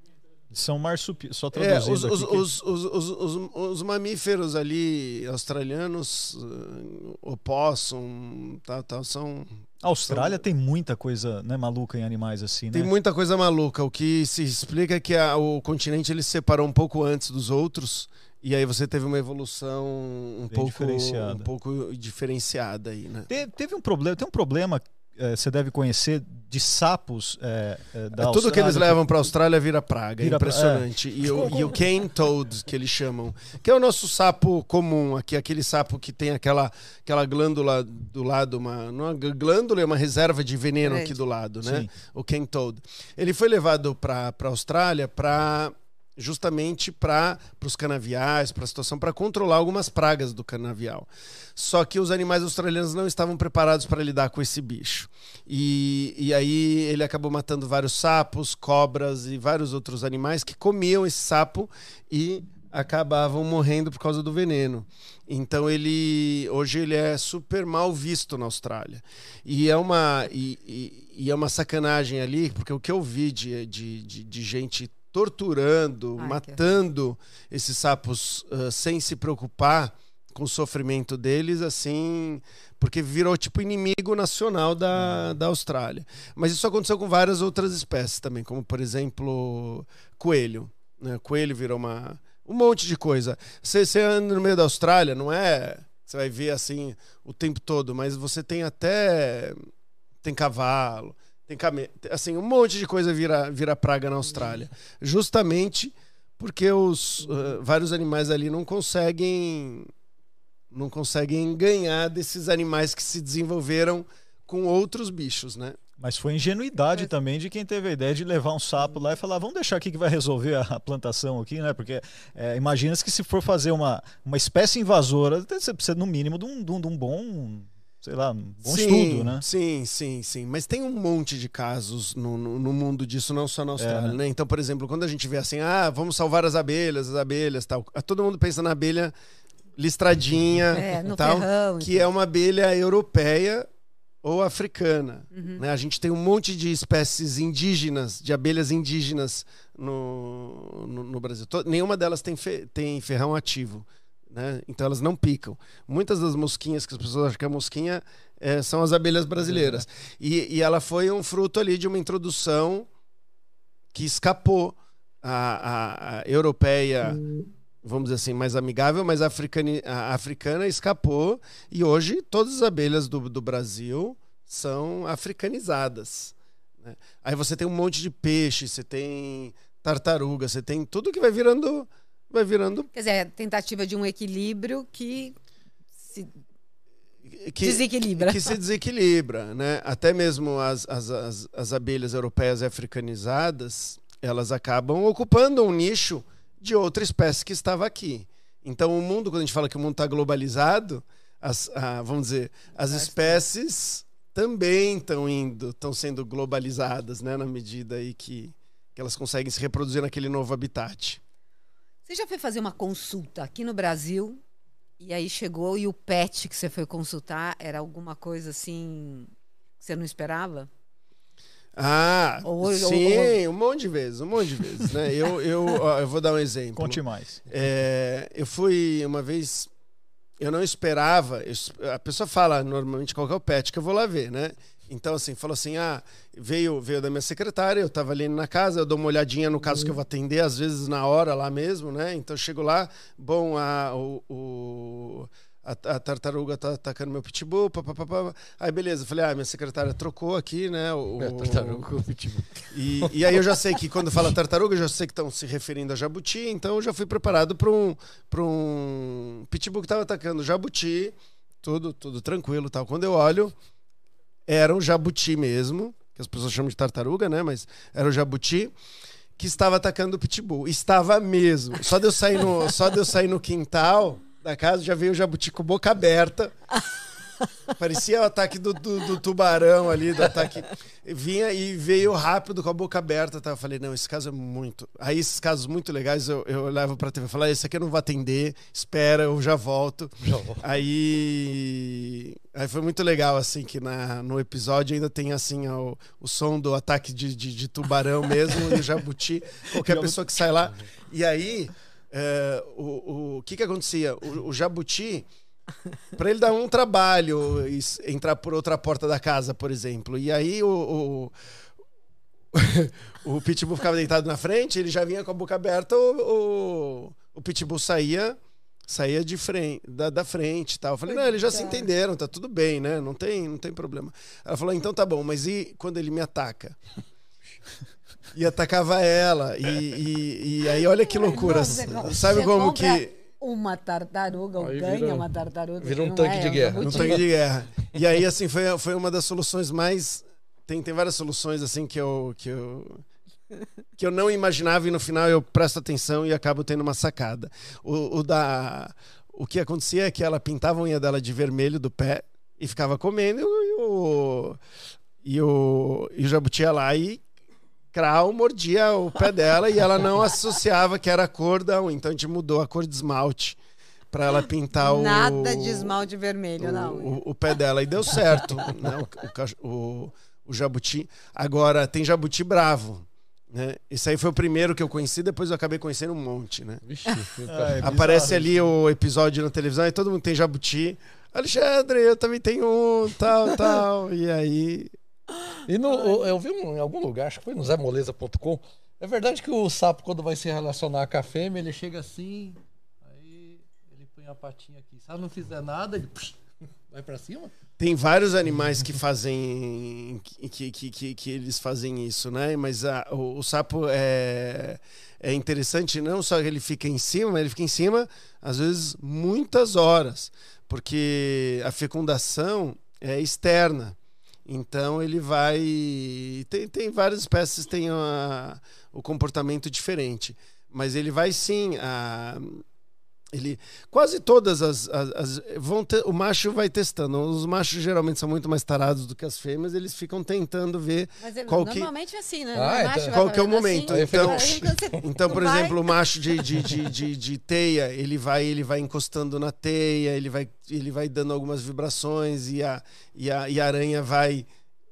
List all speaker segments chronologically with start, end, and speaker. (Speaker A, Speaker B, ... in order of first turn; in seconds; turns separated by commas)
Speaker A: 0.5-2.5, Speaker B: 1.5-10.4, Speaker A: 9.8-12.9, Speaker B: 12.7-23.3, Speaker A: 20.5-21.5, Speaker A: 23.3-29.0, Speaker B: 28.1-99.6, Speaker A: 30.2-30.9, Speaker C: 40.8-41.2, Speaker A: 41.6-41.9, Speaker C: 76.2-76.6, Speaker B: 100.2-109.9, Speaker B: 110.7-115.8, Speaker A: 116.0-129.4, Speaker B: 128.6-139.1, Speaker A: 133.8-134.2, Speaker B: 139.8-143.7, Speaker C: 140.8-141.9, Speaker B: 144.2-162.9, Speaker C: 145.3-145.6, Speaker B: 163.9-167.3, Speaker B: 167.8-182.9, Speaker C: 182.9-185.3, Speaker C: 186.0-186.3, Speaker B: 187.3-211.2, Speaker C: 187.6-188.6, Speaker C: 202.9-203.3, Speaker C: 212.1-214.4, Speaker C: 215.0-220.7, Speaker B: 221.8-229.7, Speaker C: 222.4-223.4, Speaker A: 226.8-227.4, Speaker B: 230.4-251.9, Speaker D: 251.2-252.5, Speaker B: 252.7-263.5, Speaker B: 264.5-268.7, Speaker B: 269.4-276.5, Speaker B: 277.8-305.3, Speaker D: 290.2-290.6, Speaker A: 299.8-300.1, Speaker B: 306.1-311.3, Speaker B: 312.5-326.8, Speaker C: 321.1-321.8, Speaker B: 328.3-333.1, Speaker C: 331.1-337.2, Speaker D: 334.6-335.3, Speaker D: 335.8-337.2, Speaker B: 336.8-343.0, Speaker B: 344.0-354.6, Speaker B: 355.2-357.2, Speaker B: 357.9-363.6, Speaker B: 364.1-365.9, Speaker C: 364.8-367.2, Speaker B: 366.6-376.8, Speaker D: 376.8-377.9, Speaker A: 377.4-378.6, Speaker B: 377.8-384.9, Speaker D: 385.7-397.5, Speaker C: 385.9-386.2, Speaker B: 397.8-422.6, Speaker B: 423.3-431.9, Speaker C: 431.2-435.8, Speaker D: 432.5-433.1, Speaker B: 433.1-444.4, Speaker D: 433.9-435.0